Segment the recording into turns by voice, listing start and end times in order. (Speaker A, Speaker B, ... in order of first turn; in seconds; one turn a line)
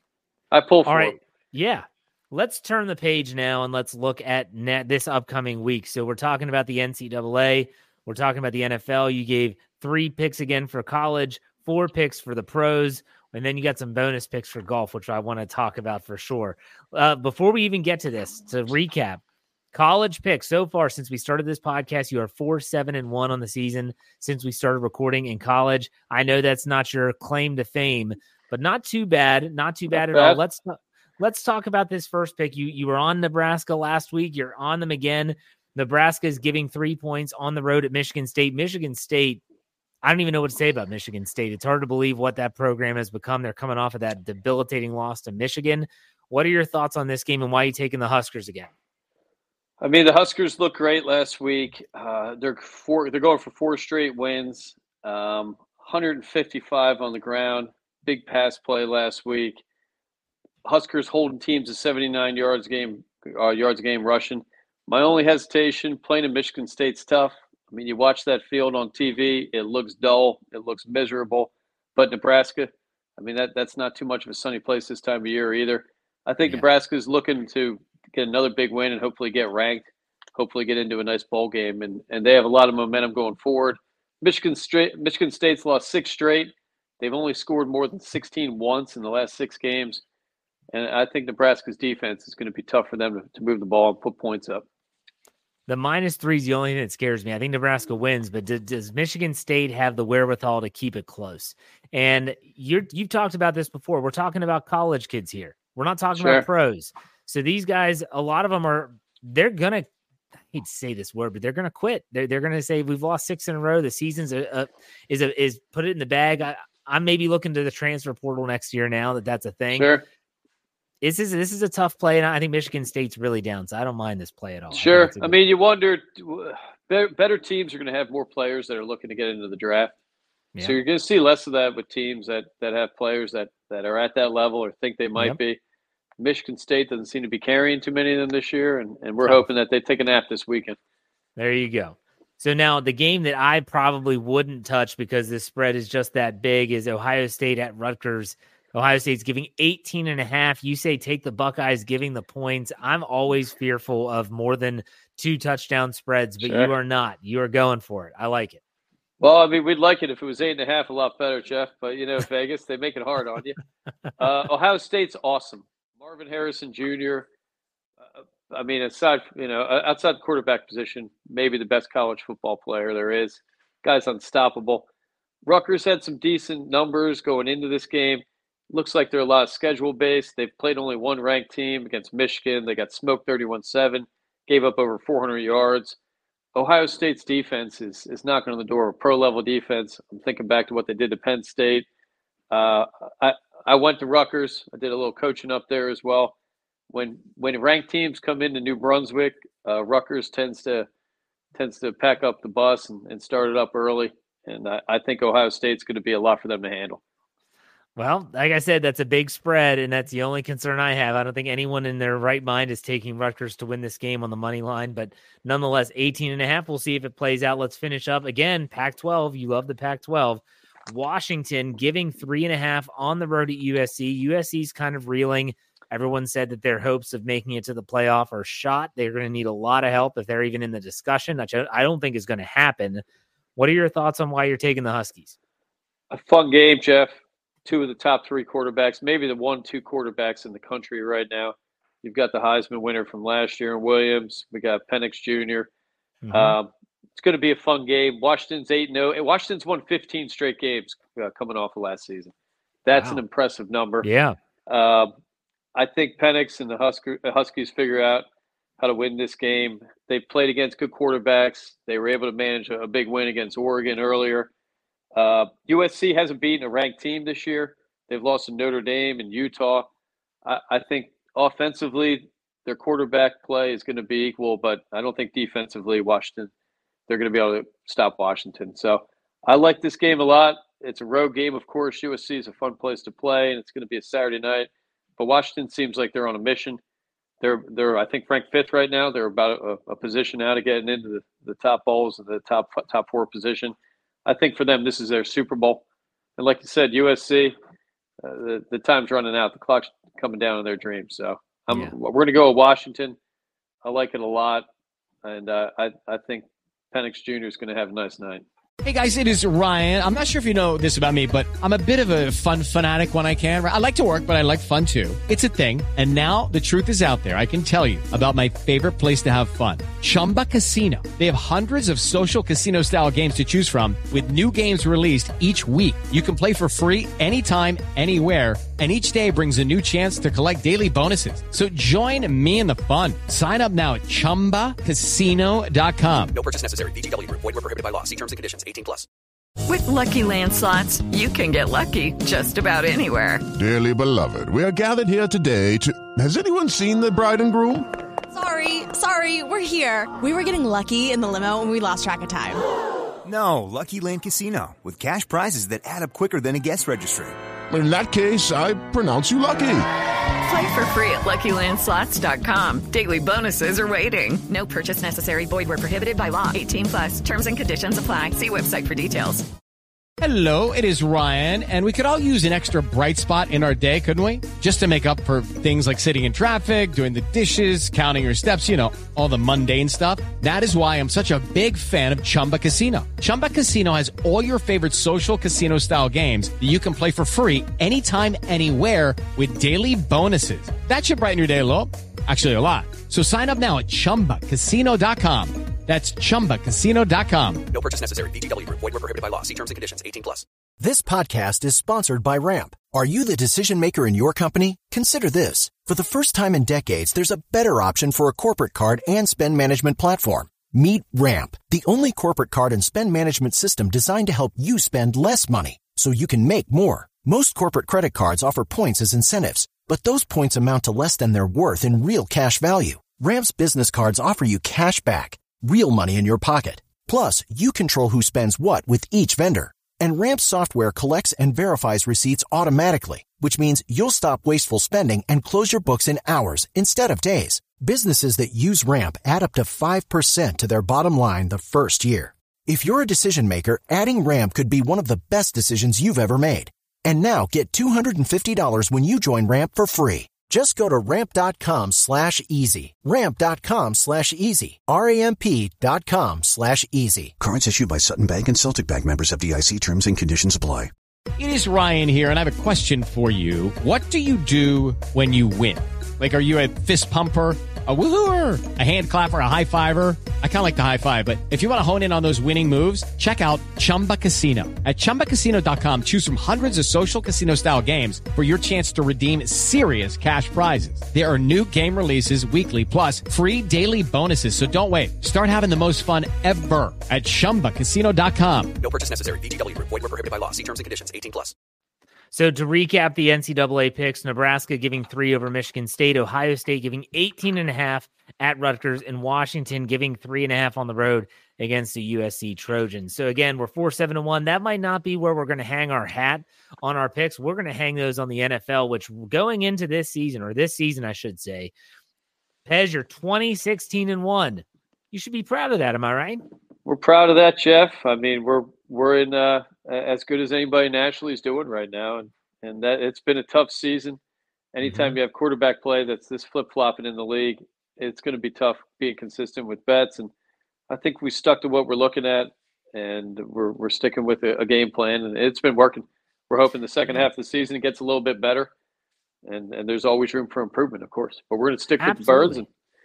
Speaker A: 0.5-1.2
Speaker B: 0.9-19.2
Speaker B: 19.7-39.4
Speaker A: 29.9-30.4
Speaker B: 40.0-48.7
Speaker A: 49.8-59.6
Speaker A: 60.6-90.0
Speaker A: 90.7-94.6
Speaker B: 95.7-109.9
Speaker A: 106.1-106.4
Speaker B: 110.5-119.9
Speaker A: 119.7-120.0
Speaker B: 121.0-125.3
Speaker A: 124.7-129.9
Speaker A: 130.6-135.6
Speaker A: 136.2-140.8
Speaker B: 141.4-158.6
Speaker A: 156.4-156.7
Speaker A: 159.2-163.6
Speaker A: 164.2-167.3
Speaker A: 168.1-174.8
Speaker A: 175.4-186.0
Speaker A: 186.5-191.8
Speaker A: 192.5-196.3
Speaker A: 196.9-200.9
Speaker A: 201.5-207.0
Speaker B: 207.9-233.0
Speaker B: 233.6-235.3
Speaker A: 236.1-237.1
Speaker A: 237.6-245.7
Speaker B: 246.2-246.6
Speaker A: 246.3-252.3
Speaker A: 252.8-254.1
Speaker B: 252.9-253.2
Speaker B: 254.0-254.3
Speaker A: 254.7-255.1
Speaker A: 255.7-258.2
Speaker A: 258.8-264.5
Speaker A: 265.1-269.9
Speaker A: 270.4-276.5
Speaker A: 277.1-286.8
Speaker A: 287.4-293.7
Speaker A: 294.2-295.8
Speaker A: 296.4-297.5
Speaker A: 298.2-303.1
Speaker A: 303.8-304.6
Speaker A: 305.2-308.4
Speaker C: 308.8-336.4
Speaker D: 336.3-339.1
Speaker E: 339.7-343.4
Speaker F: 343.6-347.9
Speaker G: 348.3-352.6
Speaker H: 353.2-357.4
Speaker F: 357.7-359.9
Speaker E: 360.4-369.4
Speaker C: 370.2-397.6
Speaker D: 397.7-400.4
Speaker I: 400.8-457.3
Speaker J: 457.4-460.9
Speaker C: 461.4-488.8
Speaker D: 488.8-491.5
Speaker B: 492.3-511.7
Speaker B: 512.6-516.4
Speaker A: 516.9-524.2
Speaker A: 524.7-530.3
Speaker B: 524.8-525.2
Speaker A: 530.9-538.7
Speaker A: 539.4-542.6
Speaker B: 542.0-542.6